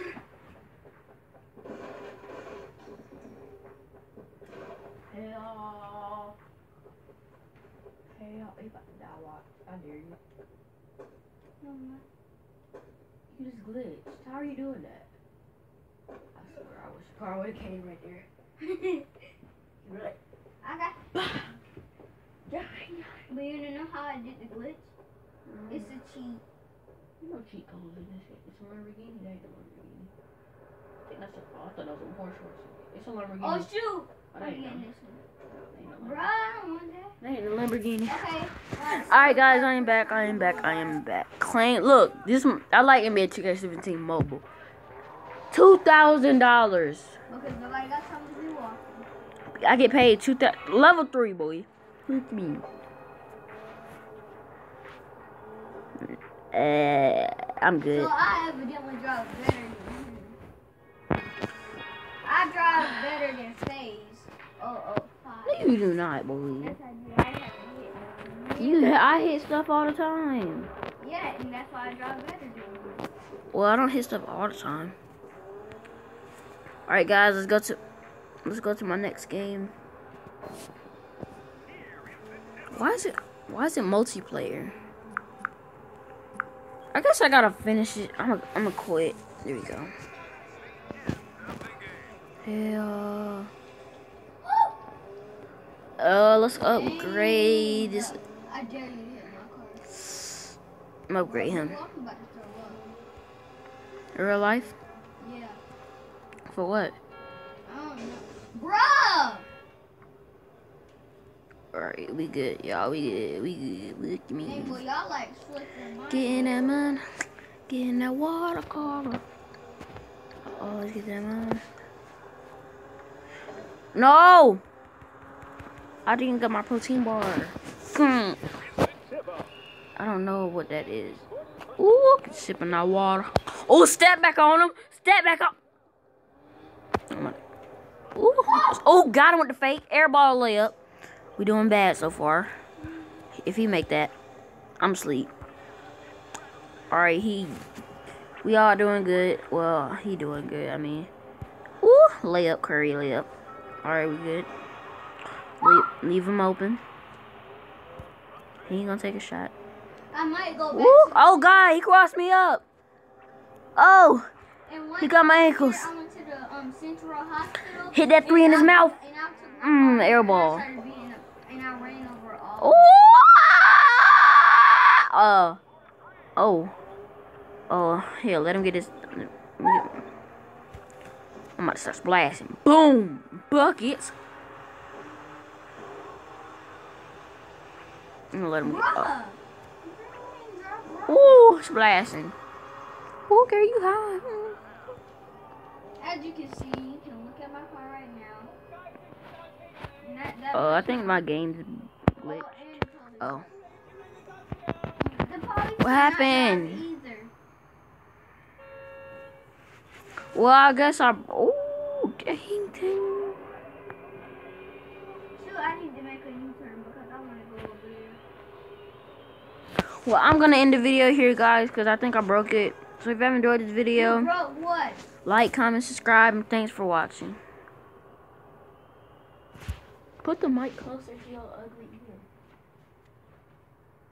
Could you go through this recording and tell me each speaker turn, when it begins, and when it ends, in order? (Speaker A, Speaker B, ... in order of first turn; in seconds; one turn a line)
Speaker A: 5.1-6.3
Speaker A: 8.1-10.2
Speaker B: 11.6-12.0
Speaker A: 13.3-15.1
Speaker A: 16.3-18.2
Speaker B: 18.6-19.1
Speaker A: 19.8-20.1
Speaker B: 20.6-21.0
Speaker A: 21.1-21.5
Speaker A: 22.5-23.2
Speaker B: 23.1-24.9
Speaker A: 25.4-25.9
Speaker B: 25.7-26.4
Speaker A: 27.2-30.1
Speaker A: 31.0-33.7
Speaker B: 33.4-35.2
Speaker A: 34.3-34.9
Speaker A: 35.6-36.3
Speaker B: 36.0-37.2
Speaker A: 37.2-38.2
Speaker B: 38.0-41.0
Speaker A: 38.8-44.4
Speaker A: 45.5-47.2
Speaker B: 47.3-49.1
Speaker A: 49.5-52.6
Speaker A: 56.0-58.1
Speaker B: 57.9-60.4
Speaker B: 62.2-65.7
Speaker A: 65.5-66.8
Speaker B: 66.6-69.0
Speaker A: 68.6-70.7
Speaker B: 71.0-73.1
Speaker A: 73.5-74.9
Speaker A: 76.9-77.8
Speaker A: 78.4-79.7
Speaker A: 82.7-84.7
Speaker A: 86.9-89.9
Speaker A: 92.4-93.5
Speaker B: 94.4-94.8
Speaker A: 96.0-98.2
Speaker B: 96.6-99.8
Speaker A: 101.1-101.8
Speaker B: 101.2-102.8
Speaker A: 104.1-104.7
Speaker B: 105.2-105.6
Speaker A: 106.5-107.0
Speaker B: 107.6-109.5
Speaker A: 111.7-114.8
Speaker B: 114.4-116.8
Speaker A: 116.1-117.0
Speaker A: 117.7-119.2
Speaker A: 120.4-121.6
Speaker A: 123.9-124.6
Speaker A: 126.0-128.4
Speaker A: 130.0-131.3
Speaker A: 131.8-135.6
Speaker A: 137.1-137.4
Speaker A: 138.1-140.8
Speaker A: 141.4-142.5
Speaker A: 143.3-144.1
Speaker A: 144.8-145.3
Speaker A: 146.9-147.6
Speaker A: 148.4-151.1
Speaker A: 151.8-153.3
Speaker A: 153.8-154.5
Speaker A: 155.6-156.8
Speaker A: 158.7-159.5
Speaker B: 160.1-161.4
Speaker A: 160.7-162.6
Speaker A: 163.8-164.3
Speaker B: 164.7-172.9
Speaker A: 165.0-165.9
Speaker A: 167.9-168.9
Speaker A: 169.6-170.7
Speaker A: 172.6-175.6
Speaker A: 176.4-176.7
Speaker A: 177.7-180.0
Speaker A: 181.6-184.1
Speaker A: 188.3-189.1
Speaker B: 188.6-191.5
Speaker A: 191.1-192.3
Speaker A: 193.3-194.6
Speaker B: 196.0-198.5
Speaker B: 200.0-201.2
Speaker A: 200.5-203.5
Speaker B: 202.2-203.4
Speaker B: 205.0-207.3
Speaker A: 205.8-206.8
Speaker A: 210.3-213.4
Speaker B: 215.3-218.2
Speaker A: 220.0-224.3
Speaker B: 223.9-225.0
Speaker A: 225.2-227.4
Speaker A: 230.2-232.2